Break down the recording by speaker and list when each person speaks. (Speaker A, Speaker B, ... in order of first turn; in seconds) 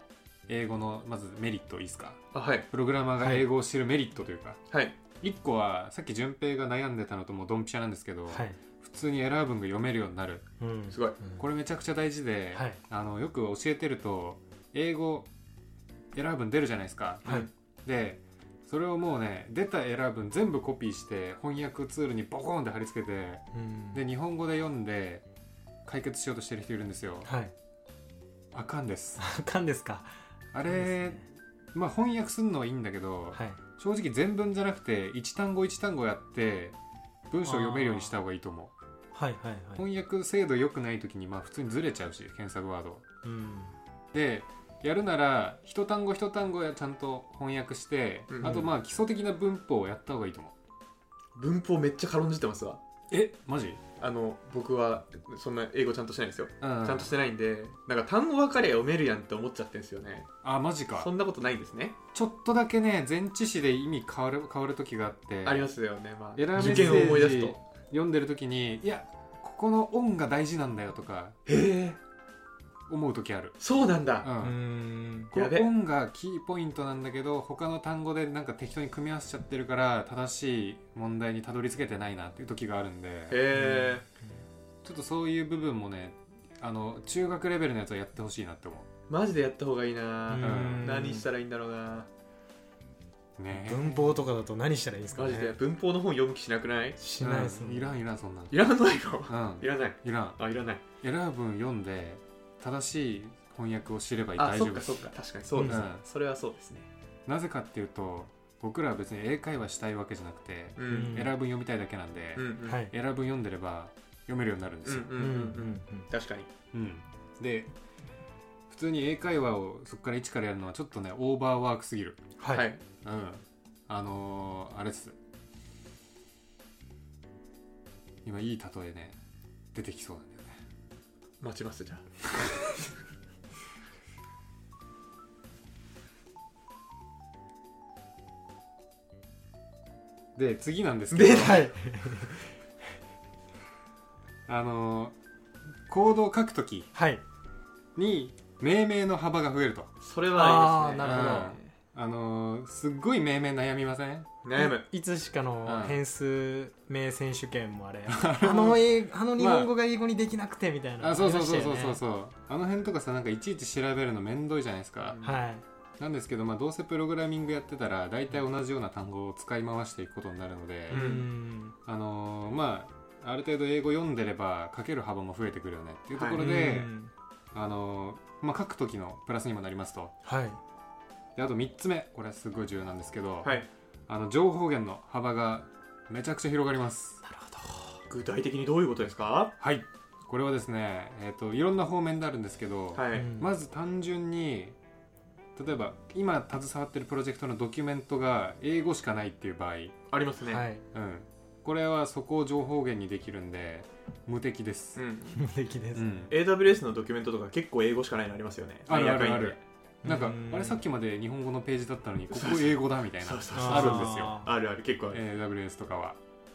Speaker A: 0.5-4.6, 5.2-10.4, 11.4-15.3, 16.1-25.2, 25.8-27.3, 28.5-29.2, 30.5-31.2, 31.7-36.8, 37.3-38.7, 39.8-43.0, 44.1-50.5, 53.1-53.8, 56.6-57.1, 60.4-61.1, 62.1-65.7, 66.3-71.4, 72.9-73.6, 74.2-74.6, 75.3-83.4, 84.8-88.9, 90.4-91.0, 93.4-94.2, 97.2-98.5, 99.3-100.4, 101.0-105.0, 105.7-106.0, 107.2-115.2, 116.7-117.7, 118.7-122.3, 123.0-125.2, 128.2-129.2, 129.7-130.6, 140.3-141.7, 144.5-145.2, 145.8-146.9, 147.9-149.9, 151.0-154.3, 155.6-156.0, 158.1-159.7, 161.0-165.2, 166.0-171.2, 171.8-176.9, 177.5-180.1, 181.3-183.5, 184.1-187.2, 189.6-194.8, 195.6-199.9, 200.9-205.0, 205.9-206.3, 208.9-214.4, 215.1-216.2
Speaker B: 2.3-2.7, 4.7-5.0, 10.9-11.2, 17.2-17.5, 48.3-48.6, 51.4-52.8, 54.0-60.3, 61.0-62.0, 65.4-67.6, 71.5-72.0, 73.6-74.3, 75.3-75.7, 83.3-84.0, 89.1-92.1, 95.1-97.0, 98.5-100.8, 104.3-106.9, 110.8-111.2, 112.3-112.8, 114.8-116.5, 122.5-122.8, 131.4-132.0, 141.1-141.8, 150.0-151.7, 154.4-154.8, 165.0-165.4, 170.9-171.3, 176.1-176.4, 188.1-189.5, 192.9-193.3, 200.1-200.7, 204.9-205.4, 206.3-209.6, 212.3-215.2
Speaker C: 3.2-3.5, 8.3-8.6, 10.6-11.4, 23.5-24.0, 27.2-27.5, 29.2-30.1, 30.6-31.2, 33.3-33.6, 37.4-38.2, 39.1-39.9, 43.2-43.8, 48.4-48.7, 66.5-67.2, 74.4-75.3, 83.5-84.4, 90.3-91.3, 93.5-95.6, 97.0-98.0, 105.5-105.8, 110.8-111.3, 112.7-112.9, 115.1-116.1, 122.4-122.7, 141.3-142.3, 146.9-147.2, 150.3-151.6, 154.6-162.0, 165.2-165.6, 170.9-171.8, 176.3-177.1, 180.2-180.6, 187.2-188.0, 193.1-193.5, 200.4-200.8, 205.3-206.1, 210.0-210.8, 213.5-214.5